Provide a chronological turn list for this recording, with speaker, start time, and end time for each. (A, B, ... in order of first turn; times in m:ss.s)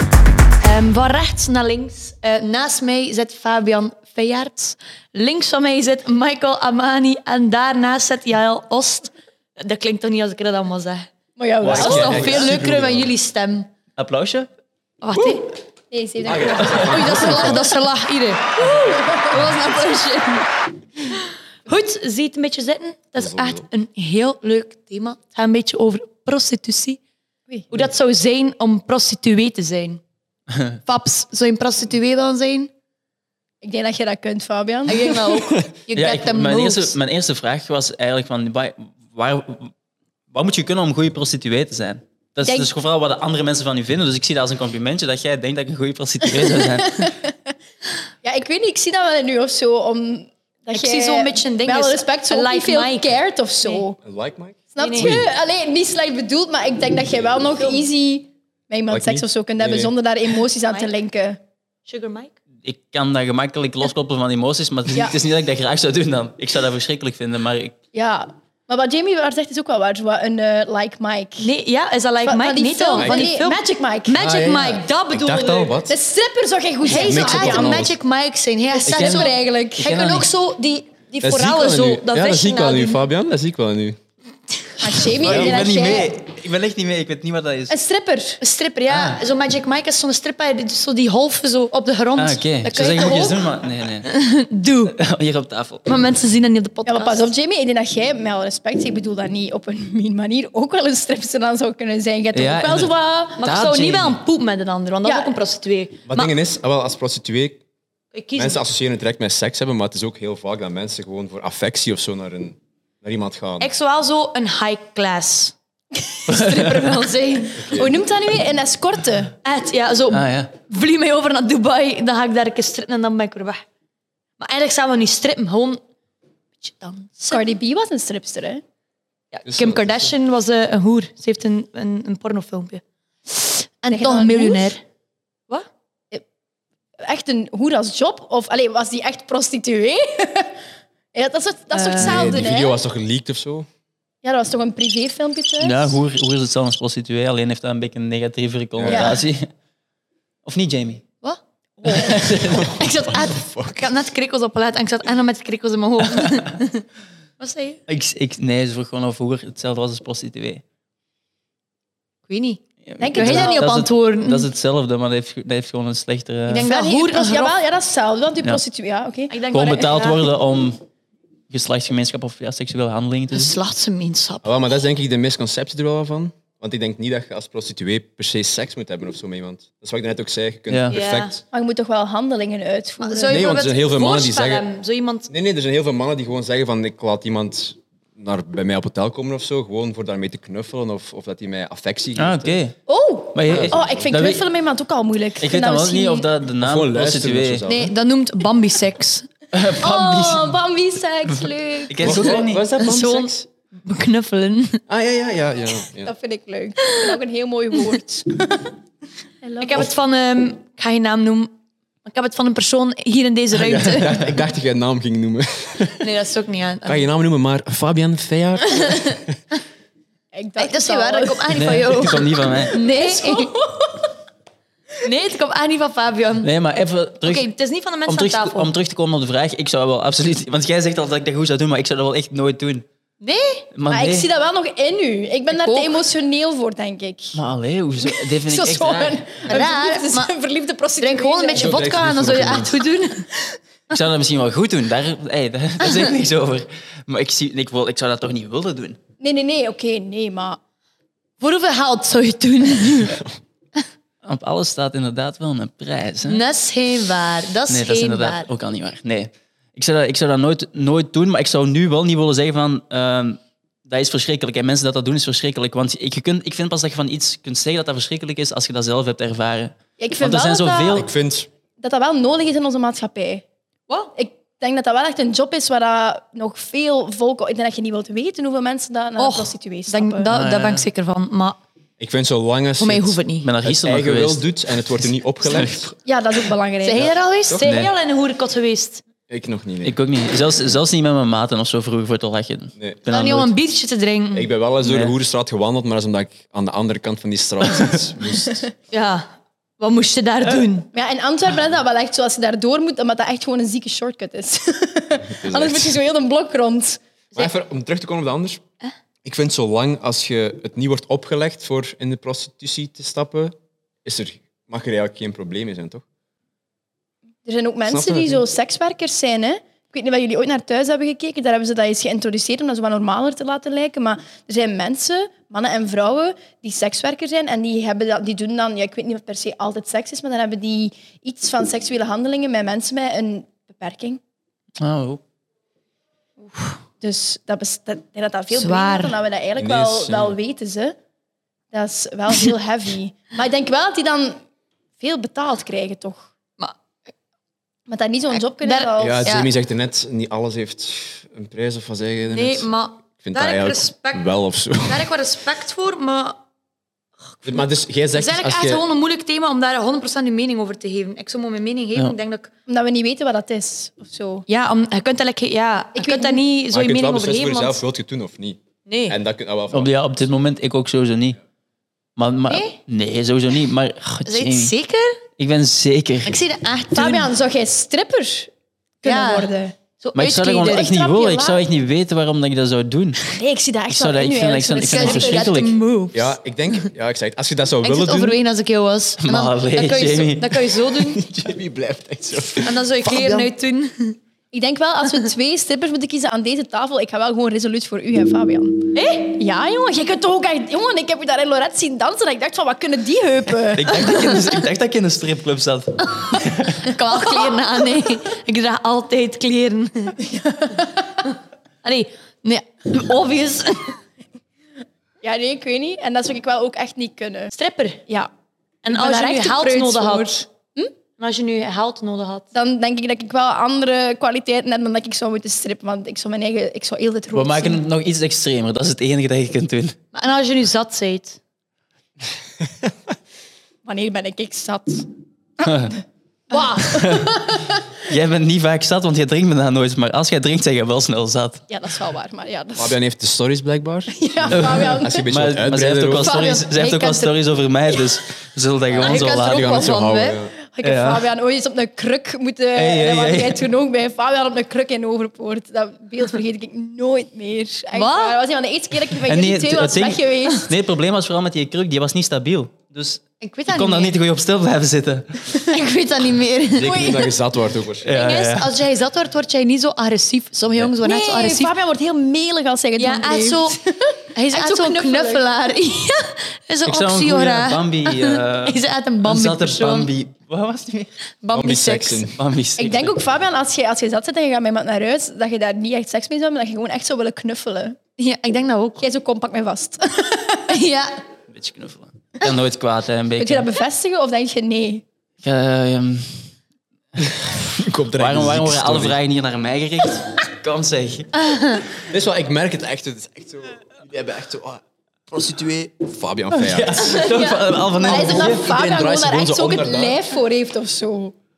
0:00.6-0:11.1 A
0:11.4-0:12.3 B
0:11.6-0:12.6 C
0:11.6-0:13.7 A
0:11.7-0:13.1 D
0:14.0-0:14.5 C
0:15.0-0:15.5 A
0:15.9-0:17.6 B
0:16.2-0:17.7 D
0:16.6-0:16.9 C
0:16.7-0:20.5 A
0:21.6-0:27.0 A
0:23.2-0:23.7 D
0:27.7-0:30.0 A
0:30.8-0:32.7 A
0:33.6-0:35.3 B
0:34.9-0:37.0 A
0:35.9-0:39.7 C
0:40.3-0:47.1 C
0:42.4-0:42.7 B
0:46.4-0:47.3 B
0:48.2-0:54.0 B
0:50.7-0:53.8 A
0:54.0-0:55.2 D
0:54.7-1:01.4 B
0:54.8-0:55.2 A
0:58.9-0:59.9 D
1:01.8-1:02.3 A
1:02.6-1:07.7 C
1:04.9-1:05.2 B
1:07.9-1:11.5 B
1:11.4-1:15.7 A
1:12.2-1:14.2 B
1:13.0-1:13.4 D
1:14.1-1:16.0 D
1:15.9-1:17.8 B
1:16.8-1:23.0 A
1:16.9-1:18.0 D
1:18.7-1:20.0 B
1:18.8-1:20.3 C
1:21.2-1:24.0 D
1:24.8-1:26.1 B
1:25.2-1:27.7 C
1:27.7-1:28.4 B
1:28.4-1:33.5 A
1:28.9-1:29.2 C
1:32.2-1:34.1 C
1:34.0-1:34.9 A
1:34.9-1:35.8 C
1:35.8-1:37.3 A
1:36.8-1:43.4 B
1:42.3-1:44.2 C
1:43.4-1:46.3 A
1:45.0-1:45.4 B
1:46.0-1:47.6 D
1:48.1-1:48.6 A
1:48.4-1:53.7 D
1:53.6-1:55.5 A
1:56.2-1:57.8 A
1:57.6-1:58.0 D
1:57.7-1:59.3 B
1:59.4-2:03.6 A
2:00.1-2:00.5 C
2:04.4-2:05.8 A
2:06.6-2:07.4 A
2:07.3-2:08.6 B
2:09.3-2:14.8 A
2:09.4-2:10.1 D
2:13.9-2:14.8 B
2:17.0-2:20.5 B
2:21.1-2:22.8 B
2:21.7-2:22.3 A
2:22.0-2:23.7 D
2:24.2-2:26.0 B
2:25.6-2:29.4 C
2:28.8-2:29.2 D
2:28.9-2:29.2 B
2:30.4-2:31.0 C
2:31.2-2:32.1 A
2:31.8-2:32.8 C
2:32.5-2:33.9 D
2:32.7-2:36.8 A
2:36.2-2:36.4 C
2:37.4-2:37.8 A
2:37.9-2:40.6 C
2:42.3-2:42.6 A
2:42.8-2:46.7 C
2:43.0-2:43.7 B
2:43.1-2:44.5 A
2:46.5-2:47.6 A
2:46.5-2:49.4 B
2:49.3-2:50.2 A
2:49.5-2:50.8 C
2:51.5-2:53.5 C
2:53.3-2:54.4 A
2:54.4-3:01.4 D
3:00.7-3:01.0 C
3:00.9-3:01.3 A
3:01.5-3:03.8 B
3:03.0-3:05.3 A
3:03.3-3:04.6 D
3:05.3-3:12.6 D
3:12.2-3:12.8 C
3:12.9-3:16.3 B
3:13.3-3:14.4 C
3:13.5-3:14.1 D
3:15.4-3:17.6 C
3:16.6-3:17.9 D
3:17.6-3:19.3 A
3:19.5-3:20.6 C
3:19.8-3:22.4 B
3:21.3-3:22.9 C
3:22.0-3:23.4 D
3:22.8-3:24.8 A
3:24.9-3:26.1 D
3:26.0-3:28.7 B
3:29.4-3:29.9 B
3:29.6-3:34.2 A
3:33.5-3:36.1 D
3:36.0-3:37.0 A
3:36.8-3:39.4 D
3:40.3-3:42.2 B
3:40.6-3:43.5 A
3:41.5-3:42.8 C
3:42.9-3:44.1 B
3:45.0-3:46.5 A
3:46.4-3:47.5 C
3:47.2-3:48.7 A
3:48.0-3:52.8 C
3:53.2-3:53.7 A
3:53.7-3:54.3 C
3:53.9-3:57.4 B
3:55.5-3:56.0 A
3:57.3-3:59.2 C
3:58.0-4:01.8 B
3:59.4-4:00.3 A
4:01.0-4:03.3 A
4:01.5-4:02.8 D
4:03.9-4:09.0 C
4:09.2-4:10.6 B
4:11.4-4:13.2 A
4:14.2-4:16.4 C
4:16.2-4:18.5 A
4:17.7-4:31.1 C
4:30.0-4:31.0 B
4:30.9-4:31.5 D
4:31.8-4:33.4 B
4:33.9-4:34.1 A
4:34.2-4:40.3 B
4:39.2-4:41.6 A
4:40.3-4:40.8 C
4:42.0-4:45.9 D
4:42.8-4:43.5 A
4:43.4-4:45.9 C
4:46.0-4:47.1 B
4:46.8-4:49.0 A
4:47.0-4:47.7 D
4:47.6-4:47.9 C
4:49.3-4:50.0 D
4:49.8-4:53.5 C
4:53.1-4:54.5 A
4:54.3-4:58.6 D
4:54.8-4:55.1 C
4:58.9-4:59.3 A
4:59.8-5:00.9 A
5:00.9-5:07.5 B
5:05.3-5:06.0 D
5:07.3-5:08.6 D
5:09.2-5:16.0 D
5:17.4-5:34.2 B
5:17.8-5:18.4 D
5:34.8-5:35.2 C
5:36.4-5:36.8 A
5:37.0-5:41.0 B
5:38.5-5:39.2 A
5:39.6-5:40.4 D
5:41.7-5:44.4 B
5:45.0-5:46.3 B
5:47.9-5:49.3 B
5:48.4-5:49.5 A
5:49.0-5:52.7 D
5:52.3-5:54.3 A
5:53.2-5:55.1 D
5:54.8-5:56.4 A
5:57.3-6:02.5 A
5:57.4-5:58.8 D
6:02.7-6:04.4 B
6:04.5-6:07.8 A
6:05.9-6:06.4 B
6:06.7-6:09.9 D
6:08.8-6:09.2 A
6:09.7-6:11.4 C
6:12.2-6:14.7 C
6:12.5-6:12.8 A
6:14.2-6:15.2 A
6:15.4-6:16.4 C
6:16.2-6:17.3 A
6:16.9-6:18.5 B
6:19.0-6:19.7 B
6:19.0-6:20.9 A
6:20.2-6:23.4 C
6:20.6-6:21.6 B
6:23.3-6:25.6 B
6:23.9-6:25.7 C
6:24.9-6:26.8 A
6:26.1-6:28.4 D
6:27.8-6:31.3 A
6:29.2-6:30.6 C
6:30.8-6:33.2 D
6:32.5-6:34.2 A
6:33.0-6:33.5 B
6:34.5-6:44.5 B
6:38.9-6:39.4 A
6:43.7-6:46.9 C
6:46.8-6:50.2 A
6:50.2-6:51.1 B
6:51.8-6:53.9 A
6:55.2-6:57.5 B
6:57.5-6:58.0 A
6:58.8-7:00.4 A
6:58.9-7:00.9 B
7:01.2-7:02.5 A
7:02.5-7:07.8 B
7:07.3-7:09.9 C
7:10.1-7:11.4 A
7:13.8-7:15.1 B
7:15.6-7:15.9 C
7:16.5-7:17.8 B
7:16.9-7:21.6 C
7:21.7-7:23.0 B
7:22.8-7:26.5 D
7:24.1-7:25.2 B
7:24.5-7:29.9 C
7:26.2-7:27.3 A
7:28.9-7:30.5 D
7:29.0-7:30.4 A
7:30.6-7:40.7 B
7:30.8-7:31.3 C
7:32.7-7:33.6 C
7:37.9-7:38.4 A
7:39.2-7:45.5 C
7:43.4-7:44.2 A
7:45.6-7:47.1 A
7:46.7-7:48.1 D
7:46.9-7:47.3 B
7:48.0-7:48.7 C
7:48.1-7:51.7 A
7:51.0-7:55.4 B
7:53.0-7:53.8 A
7:54.3-8:00.1 A
7:56.8-8:01.1 C
8:01.4-8:02.2 A
8:01.5-8:02.4 D
8:02.4-8:03.2 C
8:02.8-8:08.0 B
8:08.2-8:09.0 A
8:09.0-8:10.7 B
8:10.7-8:11.2 A
8:11.5-8:13.7 C
8:13.4-8:15.0 B
8:15.4-8:16.5 C
8:17.8-8:19.2 D
8:18.1-8:21.8 C
8:21.4-8:21.8 A
8:22.1-8:27.2 D
8:26.5-8:28.7 C
8:27.0-8:31.3 B
8:28.1-8:30.2 D